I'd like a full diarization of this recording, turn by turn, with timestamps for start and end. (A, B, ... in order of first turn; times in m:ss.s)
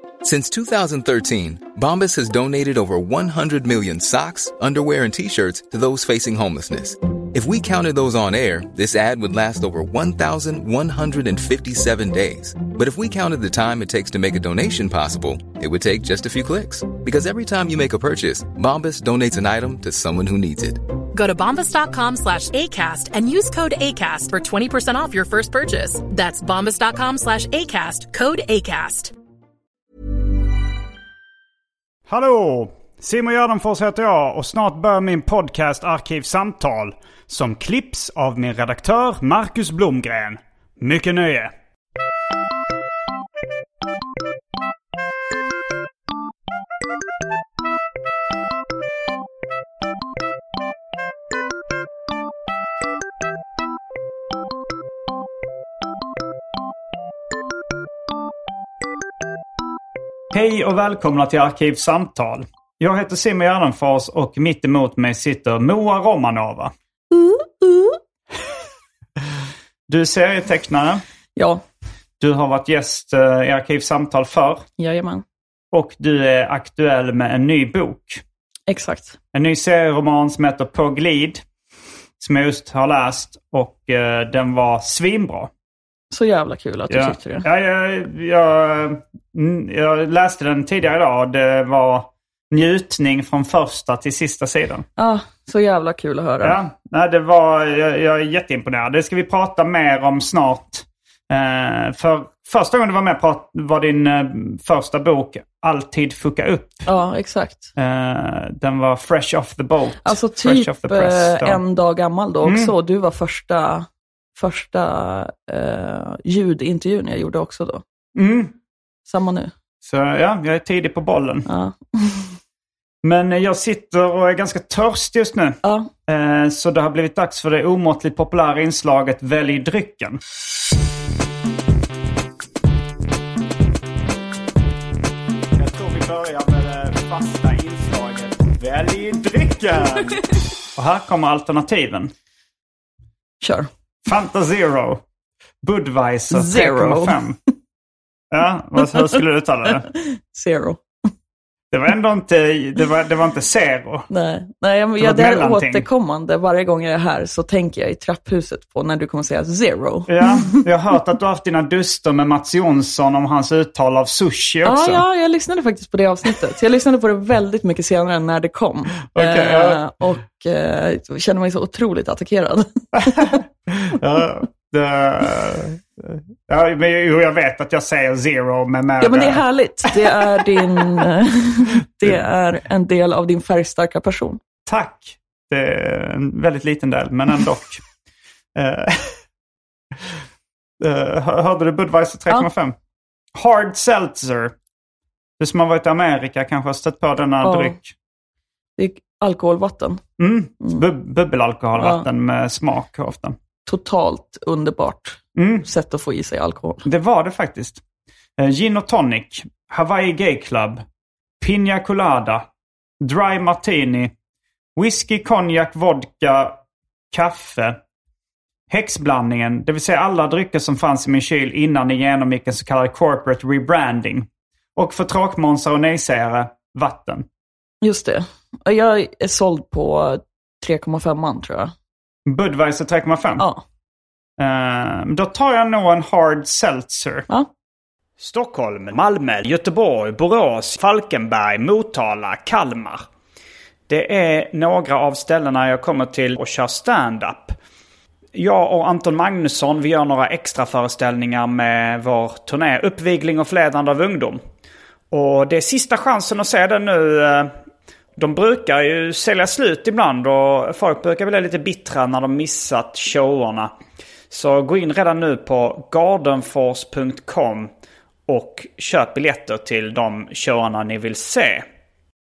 0:00.2-0:20.8 A
0:21.1-0:29.1 B
0:32.1-0:41.5 C
1:00.3-1:06.7 C
1:07.1-1:08.0 D
1:09.9-1:11.0 C
1:11.4-1:11.6 D
1:12.2-1:14.6 C
1:14.8-1:15.2 D
1:15.7-1:18.2 C
1:18.7-1:19.2 D
1:19.3-1:21.4 C
1:22.2-1:25.5 C
1:26.1-1:27.4 D
1:26.9-1:34.8 C
1:35.0-1:36.6 D
1:36.4-1:46.8 C
1:46.8-1:47.7 D
1:47.8-1:51.6 C
1:50.0-1:57.8 D
1:52.4-1:52.7 C
1:58.2-1:58.5 C
1:59.1-1:59.5 D
1:59.8-2:01.5 C
2:01.5-2:02.4 D
2:03.0-2:10.2 C
2:05.6-2:05.9 D
2:15.6-2:22.1 C
2:23.4-2:23.7 D
2:24.0-2:25.0 C
2:25.6-2:27.4 C
2:26.3-2:27.2 D
2:28.3-2:29.9 C
2:29.9-2:30.8 D
2:31.7-2:34.1 C
2:34.1-2:40.6 D
2:35.0-2:35.8 C
2:40.1-2:45.0 C
2:44.6-2:53.4 D
2:49.1-2:49.8 C
2:53.0-3:01.0 C
2:59.0-3:04.4 D
3:04.6-3:07.8 C
3:08.6-3:09.2 C
3:10.8-3:12.8 C
3:13.4-3:14.5 C
3:15.4-3:17.9 C
3:17.4-3:17.7 D
3:18.8-3:20.0 D
3:20.2-3:23.4 C
3:21.8-3:22.0 D
3:23.6-3:26.8 D
3:25.4-3:25.6 C
3:26.8-3:27.8 C
3:28.4-3:30.8 C
3:31.4-3:32.4 C
3:33.0-3:34.1 C
3:34.8-3:36.6 C
3:37.1-3:37.8 C
3:38.7-3:47.2 C
3:47.8-3:51.7 D
3:52.2-3:53.4 C
3:53.4-3:53.6 D
3:54.4-3:57.3 C
3:58.2-4:03.0 C
4:03.9-4:07.6 C
4:08.3-4:14.4 C
4:15.1-4:17.5 C
4:18.2-4:23.7 C
4:24.3-4:27.7 C
4:28.3-4:31.6 C